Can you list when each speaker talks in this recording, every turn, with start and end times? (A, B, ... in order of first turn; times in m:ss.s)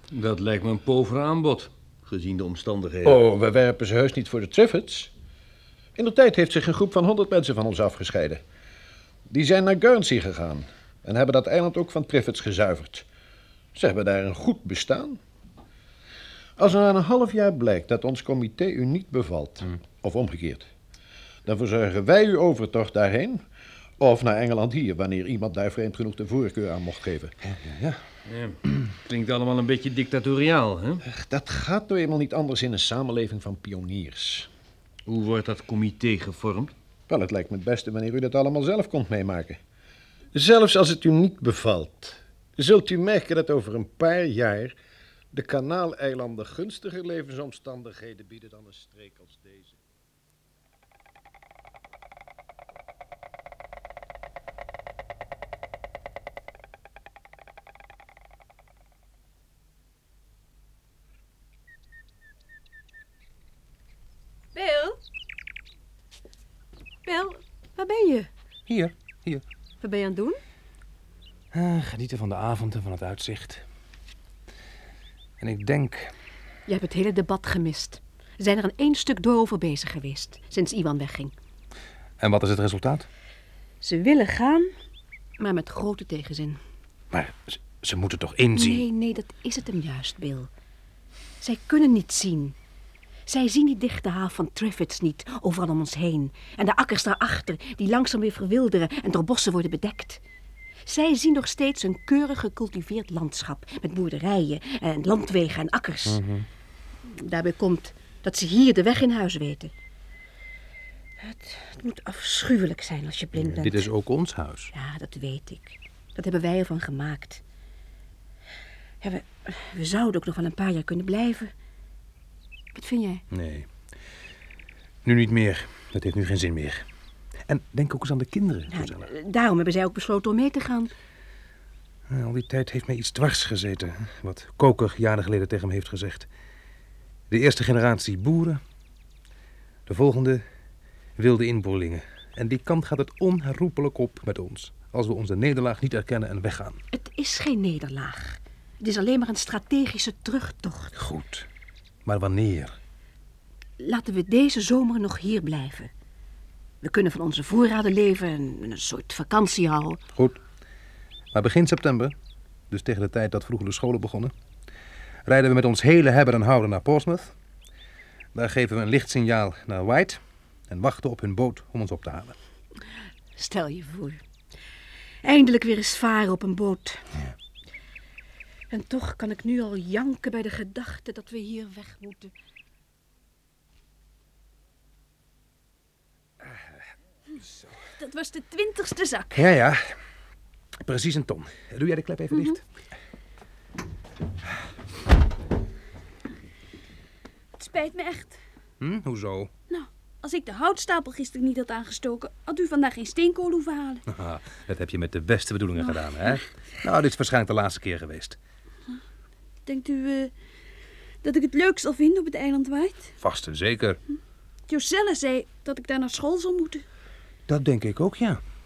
0:00.1-0:03.2 A
0:03.0-0:05.1 B
0:06.0-0:08.4 B
0:09.3-0:13.1 B
0:13.8-0:15.2 B
0:16.6-0:20.7 B
0:21.5-0:23.4 B
0:24.0-0:27.3 B
0:27.4-0:28.0 C
0:28.3-0:31.0 A
0:31.1-0:34.5 B
0:35.1-0:36.7 A
0:37.1-0:39.6 B
0:40.3-0:44.8 B
0:45.3-0:49.8 B
1:04.6-1:05.0 D
1:07.1-1:08.3 D
1:08.7-1:09.4 C
1:09.8-1:10.4 D
1:11.5-1:13.6 C
1:15.4-1:16.1 C
1:16.7-1:21.3 D
1:22.2-1:23.1 C
1:23.8-1:24.7 D
1:25.4-1:26.6 D
1:27.1-1:28.8 C
1:28.5-1:30.5 D
1:31.4-1:32.6 D
1:33.3-1:40.2 D
1:40.8-1:46.2 D
1:46.1-1:46.4 C
1:47.1-1:49.7 D
1:51.2-1:53.9 D
1:53.4-1:54.7 C
1:54.7-1:57.4 D
1:59.0-2:01.5 D
2:02.7-2:03.2 D
2:03.3-2:03.7 C
2:05.0-2:06.8 C
2:07.5-2:09.1 C
2:08.7-2:10.9 D
2:12.1-2:16.3 C
2:17.3-2:18.6 C
2:19.9-2:20.4 C
2:21.2-2:26.8 C
2:26.9-2:30.9 D
2:31.0-2:31.5 C
2:32.1-2:32.8 C
2:33.8-2:35.9 D
2:36.8-2:40.0 D
2:41.3-2:42.1 C
2:42.7-2:44.3 C
2:45.3-2:47.3 C
2:48.4-2:50.2 C
2:50.7-2:52.4 C
2:53.4-2:54.2 D
2:55.2-2:57.0 D
2:58.7-3:02.3 D
3:08.0-3:09.4 E
3:09.4-3:09.9 C
3:10.8-3:12.6 C
3:17.6-3:18.4 E
3:18.8-3:19.5 C
3:19.7-3:24.0 E
3:24.1-3:28.4 C
3:29.7-3:30.3 E
3:31.2-3:33.1 E
3:33.2-3:34.0 C
3:34.7-3:36.8 E
3:37.5-3:38.4 C